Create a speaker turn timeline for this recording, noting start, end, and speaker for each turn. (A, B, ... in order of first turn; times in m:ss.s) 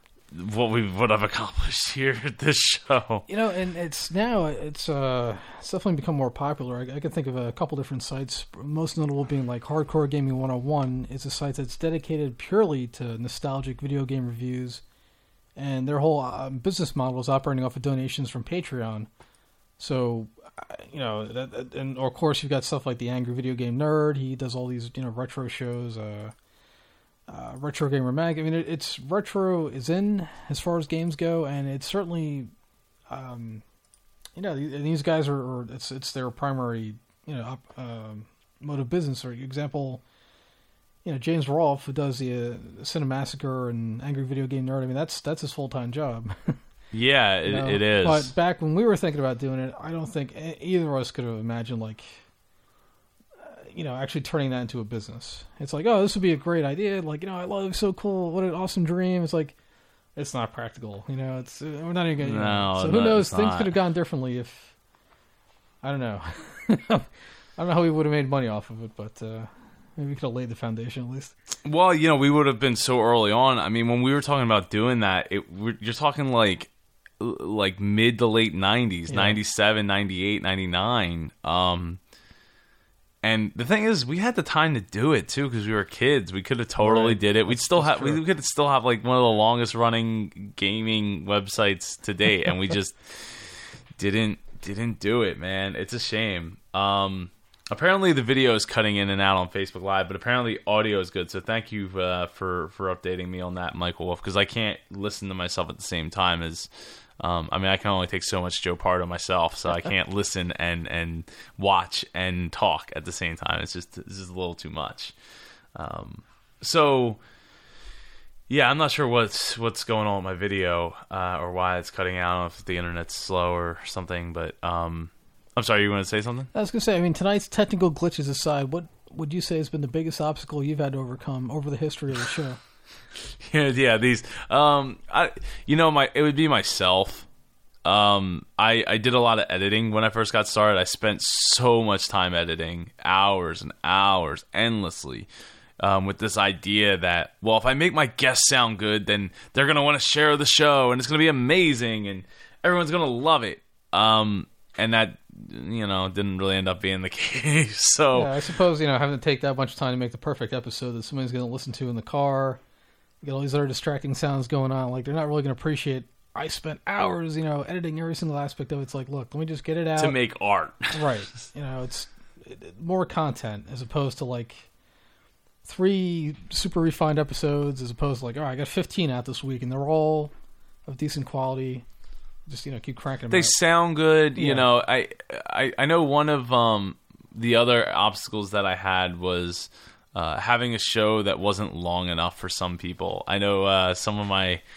0:00.3-0:03.3 A
0:03.3-0:14.8 B
0:15.6-0:19.1 B
0:19.8-0:26.3 B
0:27.3-0:32.5 B
0:33.1-0:33.6 B
0:34.4-0:40.0 B
0:41.0-0:46.6 B
0:46.9-0:48.3 A
0:47.4-0:52.2 B
0:53.4-0:59.6 B
1:00.2-1:04.7 B
1:02.2-1:03.8 A
1:05.8-1:11.3 B
1:11.6-1:22.0 A
1:19.1-1:19.4 B
1:23.2-1:46.7 A
1:26.8-1:28.2 B
1:47.2-1:55.1 A
1:55.8-1:57.2 A
1:58.5-2:06.5 A
2:06.5-2:12.6 B
2:13.4-2:17.3 A
2:17.8-2:25.3 A
2:25.8-2:38.4 A
2:38.2-2:42.6 B
2:43.2-2:50.2 B
2:50.0-2:51.1 A
2:50.9-2:54.7 B
2:55.6-3:00.3 B
3:00.9-3:01.9 B
3:02.5-3:03.6 B
3:03.3-3:14.6 A
3:04.4-3:04.7 B